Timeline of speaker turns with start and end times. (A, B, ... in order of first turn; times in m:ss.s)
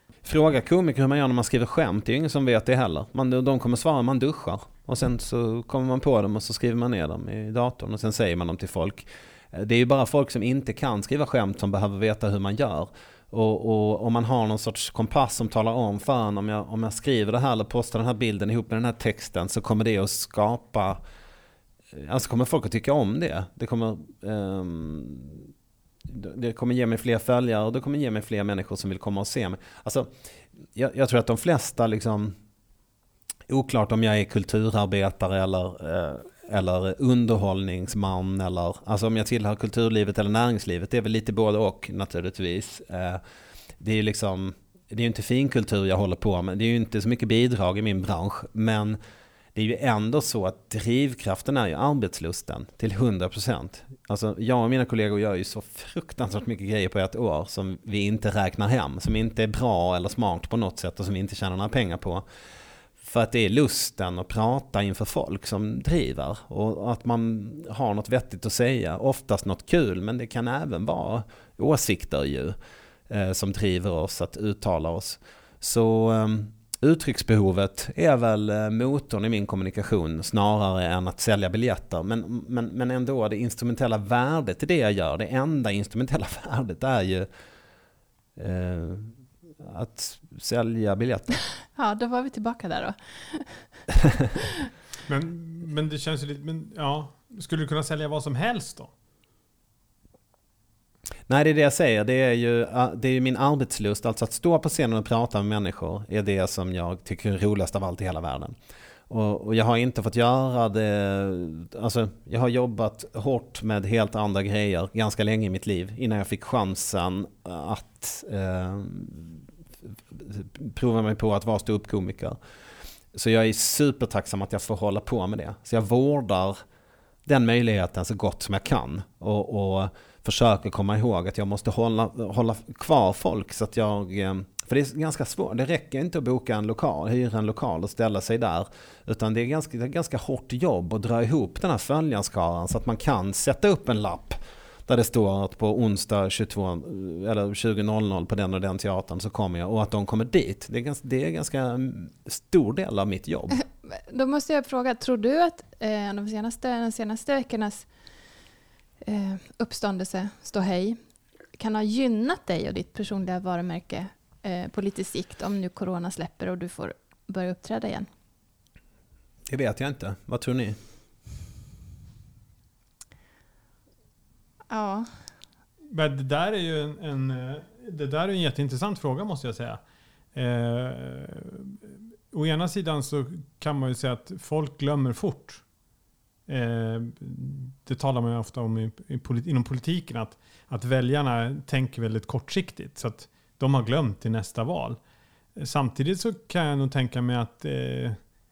0:00.2-0:21.0 A
0:21.9-0:25.5 A
0:26.1-0:30.1 A
0:30.7-0:32.4 A
0:33.5-0:43.2 A
0:43.8-0:49.0 A
0:49.6-1:02.2 A
1:03.0-1:12.6 A
1:13.1-1:27.3 A
1:28.4-1:31.4 A
1:31.8-1:33.7 B
1:35.1-1:38.9 C
1:41.3-1:48.5 A
1:49.1-2:02.4 A
2:03.1-2:06.6 A
2:07.3-2:33.6 A
2:33.5-2:37.9 B
2:39.0-2:41.0 B
2:41.6-2:48.1 B
2:49.5-2:50.8 A
2:54.7-2:55.1 B
2:55.9-2:59.8 C
3:00.4-3:05.6 C
3:06.5-3:15.0 C
3:15.6-3:18.2 C